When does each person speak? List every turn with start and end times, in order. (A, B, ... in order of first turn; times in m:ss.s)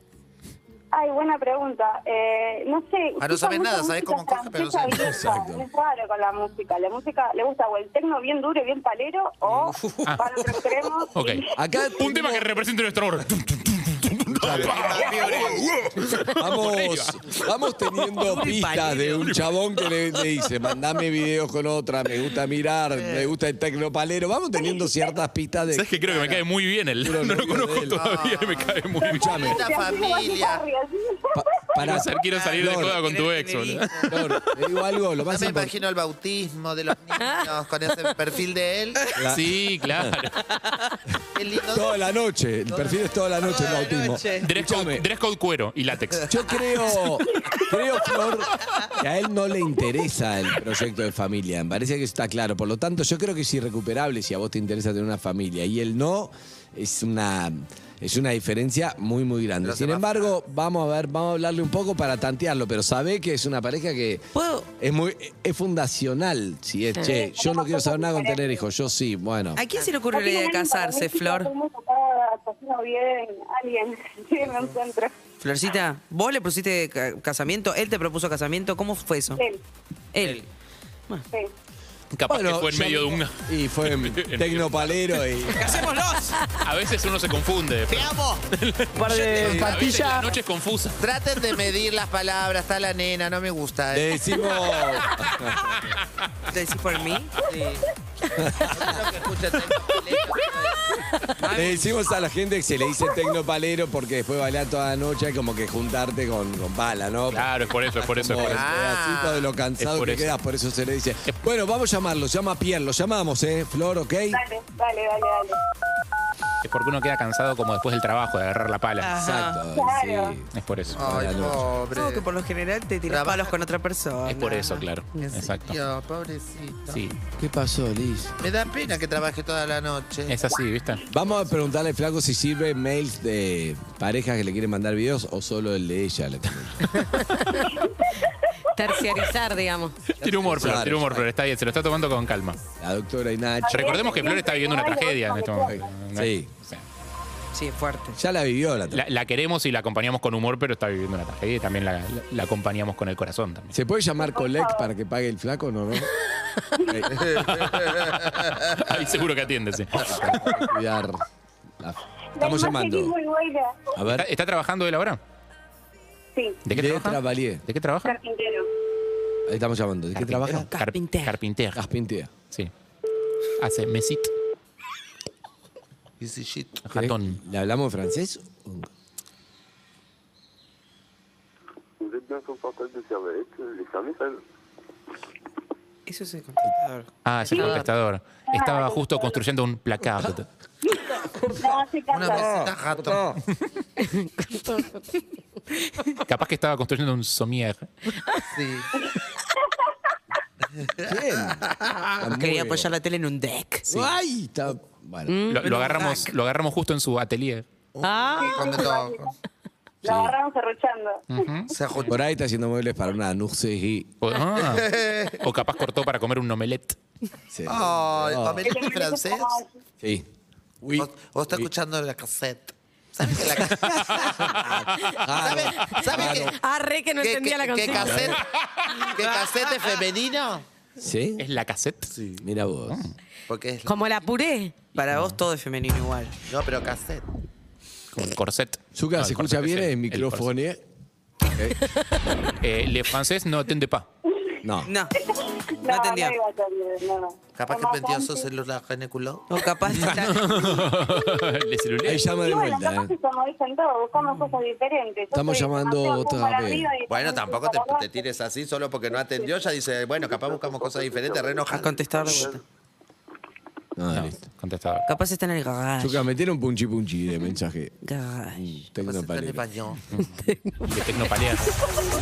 0:00.9-0:11.4 A
0:03.2-0:05.3 B
0:04.9-0:05.6 C
0:09.4-0:10.6 D
0:11.1-0:11.4 E
0:11.6-0:12.5 C
0:12.0-0:17.5 E
0:14.2-0:15.0 C
0:14.4-0:15.7 B
0:16.3-0:26.4 C
0:18.2-0:19.4 D
0:25.7-0:29.5 E
0:27.0-0:28.0 C
0:27.9-0:30.6 B
0:29.0-0:29.6 C
0:29.0-0:31.5 A
0:31.3-0:33.0 C
0:31.8-0:34.5 E
0:32.3-0:34.2 D
0:34.1-0:35.7 C
0:35.2-0:39.0 B
0:39.1-0:40.2 C
0:39.3-0:40.5 E
0:40.6-0:40.9 D
0:41.3-0:42.0 B
0:41.7-0:45.1 C
0:43.4-0:44.5 D
0:44.4-0:46.6 E
0:46.3-1:04.2 C
0:59.6-1:00.3 B
1:04.3-1:04.7 D
1:04.8-1:09.6 C
1:07.0-1:08.6 A
1:09.5-1:11.5 D
1:10.1-1:15.1 A
1:15.4-1:19.4 D
1:20.1-1:20.4 D
1:22.1-1:25.2 E
1:22.3-1:25.9 C
1:25.5-1:26.4 D
1:26.5-1:31.0 E
1:27.9-1:28.4 D
1:28.9-1:30.3 D
1:29.1-1:30.0 C
1:31.0-1:34.4 B
1:33.9-1:35.9 C
1:36.5-1:37.4 D
1:37.4-1:37.8 B
1:38.3-1:39.0 C
1:38.4-1:40.9 B
1:41.4-1:42.0 D
1:41.5-1:54.4 C
1:47.3-1:48.6 E
1:48.4-1:49.5 B
1:49.8-1:50.3 E
1:54.3-1:55.6 A
1:56.6-1:59.1 E
1:59.0-1:59.6 D
1:59.2-2:01.7 C
1:59.7-2:00.3 A
2:00.5-2:01.3 E
2:01.0-2:02.2 B
2:01.9-2:05.5 D
2:03.1-2:03.5 B
2:04.2-2:05.8 E
2:05.3-2:07.0 B
2:06.9-2:07.2 E
2:07.4-2:08.3 C
2:08.4-2:10.6 B
2:10.3-2:11.0 E
2:11.1-2:17.0 C
2:17.0-2:17.8 F
2:18.7-2:20.0 F
2:20.2-2:22.6 E
2:20.2-2:21.2 C
2:22.8-2:24.4 C
2:23.6-2:25.8 A
2:23.7-2:26.8 E
2:25.6-2:26.5 C
2:27.5-2:28.2 D
2:28.2-2:29.0 C
2:28.9-2:33.7 E
2:33.7-2:36.1 C
2:34.2-2:34.9 A
2:36.8-2:37.3 C
2:37.1-2:38.6 B
2:37.4-2:40.7 E
2:40.0-2:41.2 C
2:41.8-2:43.1 C
2:42.4-2:43.8 A
2:43.9-2:44.3 C
2:44.1-2:45.2 E
2:46.6-2:48.2 E
2:46.7-2:47.6 C
2:48.0-2:48.7 A
2:49.5-2:50.7 C
2:50.1-2:51.8 E
2:50.5-2:51.4 D
2:51.7-2:52.3 C
2:53.6-2:54.3 E
2:56.2-2:56.8 B
2:56.8-2:57.4 E
2:56.9-2:58.9 C
3:02.0-3:04.4 G
3:06.1-3:07.8 D
3:07.2-3:10.5 E
3:08.5-3:09.4 A
3:10.9-3:12.6 A
3:12.1-3:13.4 B
3:12.3-3:13.4 C
3:14.0-3:15.0 F
3:16.3-3:17.9 E
3:18.5-3:18.9 B
3:20.8-3:22.1 B
3:21.0-3:21.6 C
3:22.2-3:22.9 C
3:22.2-3:24.1 D
3:23.9-3:25.4 C
3:25.3-3:25.7 F
3:25.5-3:27.6 E
3:25.6-3:26.3 D
3:27.9-3:29.3 B
3:28.0-3:28.8 F
3:28.4-3:29.3 A
3:30.0-3:31.4 A
3:30.0-3:30.3 C
3:31.3-3:32.1 E
3:31.7-3:32.2 B
3:32.0-3:34.1 C
3:34.2-3:37.0 E
3:34.6-3:35.4 B
3:37.5-3:38.7 C
3:37.6-3:39.6 B
3:38.6-3:39.7 A
3:40.0-3:40.3 C
3:40.8-3:41.7 C
3:41.0-3:44.6 B
3:43.6-3:46.5 C
3:45.3-3:46.5 B
3:45.9-3:48.3 F
3:47.2-3:48.4 B
3:48.0-3:48.4 E
3:48.0-3:48.3 C
3:49.0-3:50.6 B
3:51.0-3:51.4 C
3:51.4-3:52.1 E
3:52.1-3:52.4 B
3:52.4-3:53.0 C
3:52.9-3:53.1 E
3:53.5-3:54.0 B
3:53.8-3:54.8 F
3:54.9-3:56.4 D
3:55.1-3:55.4 E
3:56.5-3:57.2 B
3:58.1-4:00.5 E
3:58.9-4:00.8 C
4:02.6-4:04.0 E
4:04.6-4:04.9 C
4:04.8-4:05.1 D
4:05.1-4:08.5 A
4:05.8-4:06.4 D
4:07.6-4:09.5 B
4:09.5-4:10.8 D
4:09.9-4:12.3 E
4:12.0-4:13.1 C
4:12.2-4:18.1 A
4:15.3-4:16.9 C
4:17.1-4:22.5 B
4:19.2-4:19.5 A
4:20.6-4:21.4 G
4:21.7-4:22.6 D
4:22.2-4:22.6 G
4:24.0-4:24.4 C
4:24.1-4:25.1 E
4:25.0-4:26.2 D
4:26.0-4:28.0 C
4:28.0-4:28.7 D
4:28.5-4:29.6 C
4:29.0-4:30.0 B
4:30.4-4:30.9 F
4:30.8-4:31.8 E